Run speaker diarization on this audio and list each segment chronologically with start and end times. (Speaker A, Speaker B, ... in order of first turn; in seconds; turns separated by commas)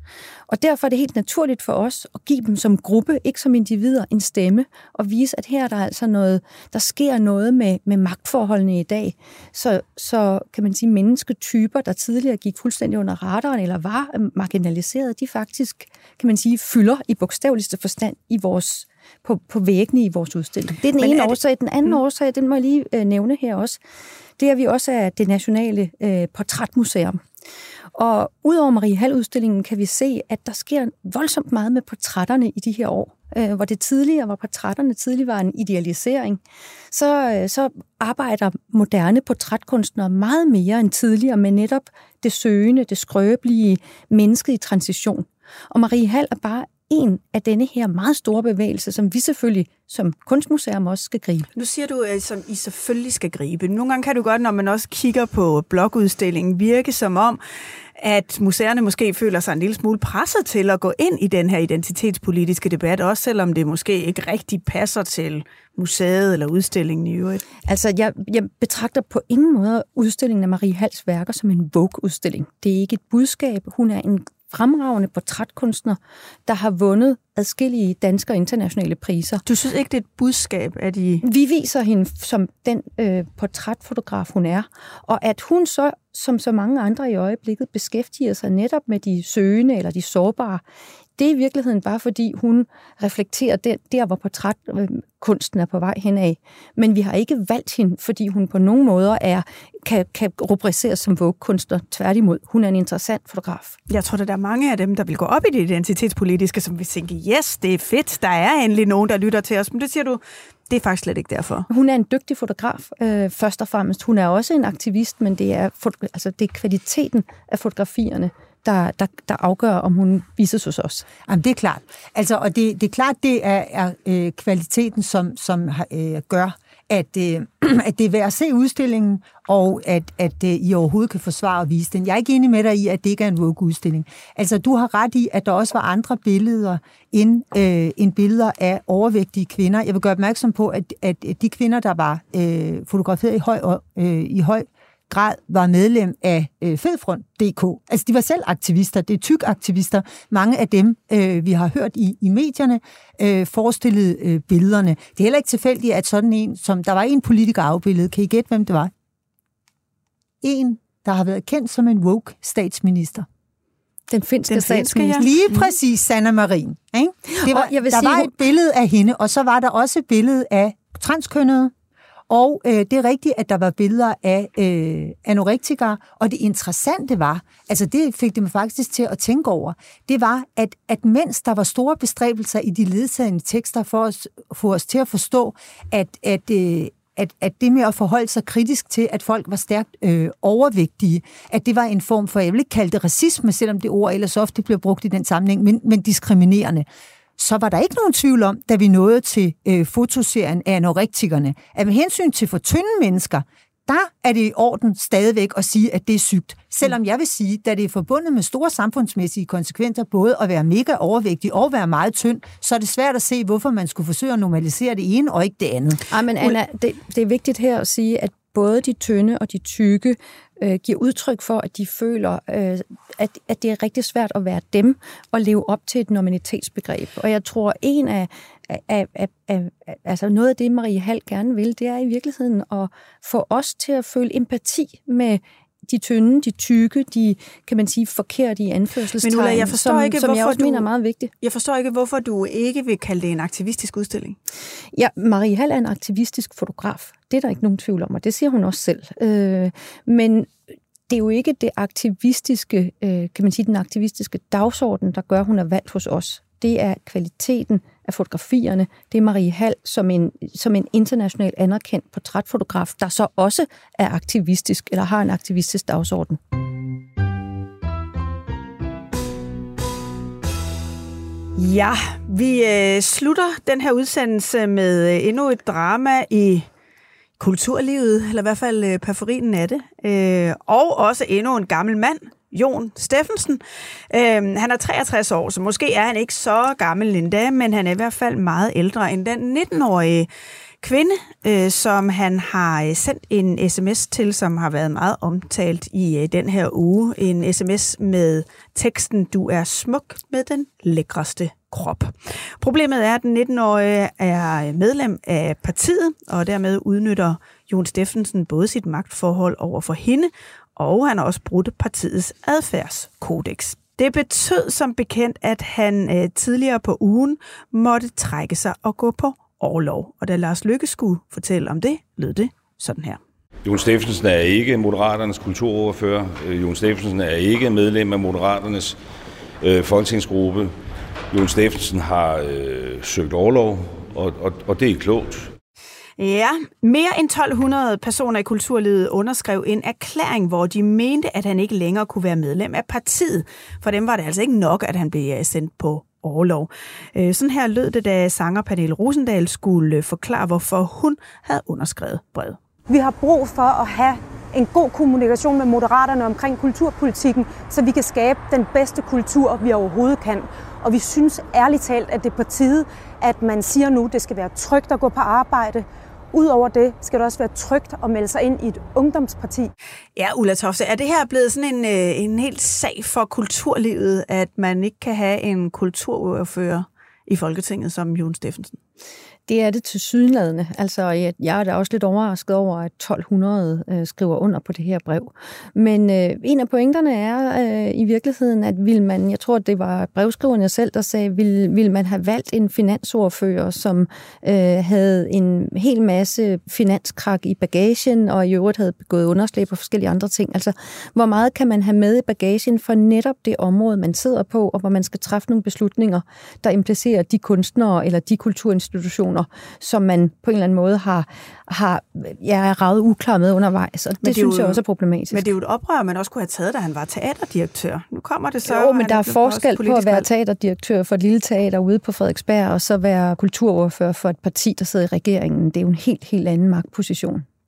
Speaker A: 0.5-23.8, Speaker B: 21.0-22.0, Speaker A: 24.4-27.2, Speaker A: 27.9-36.4, Speaker A: 36.9-51.5, Speaker B: 51.5-57.4, Speaker B: 58.0-67.4, Speaker A: 67.7-79.4, Speaker B: 79.5-81.2, Speaker A: 81.2-90.6, Speaker A: 91.2-103.8, Speaker B: 103.9-111.7, Speaker A: 111.7-121.0, Speaker C: 121.3-158.9, Speaker C: 160.4-163.2, Speaker A: 164.1-165.2, Speaker B: 164.5-165.3, Speaker C: 165.2-171.7, Speaker A: 167.3-168.3, Speaker C: 172.3-196.8, Speaker C: 197.4-216.0, Speaker A: 216.1-241.3, Speaker B: 239.2-240.8, Speaker B: 241.4-244.4, Speaker A: 244.9-250.5, Speaker A: 251.1-266.4, Speaker B: 271.6-276.7, Speaker B: 277.4-290.3, Speaker B: 290.8-323.2, Speaker D: 323.6-329.0, Speaker D: 329.6-330.7, Speaker D: 331.3-335.5, Speaker B: 336.2-352.6, Speaker E: 352.9-369.7, Speaker B: 370.2-378.8, Speaker A: 379.5-415.4, Speaker B: 414.2-414.8, Speaker B: 415.3-420.2, Speaker A: 418.6-427.4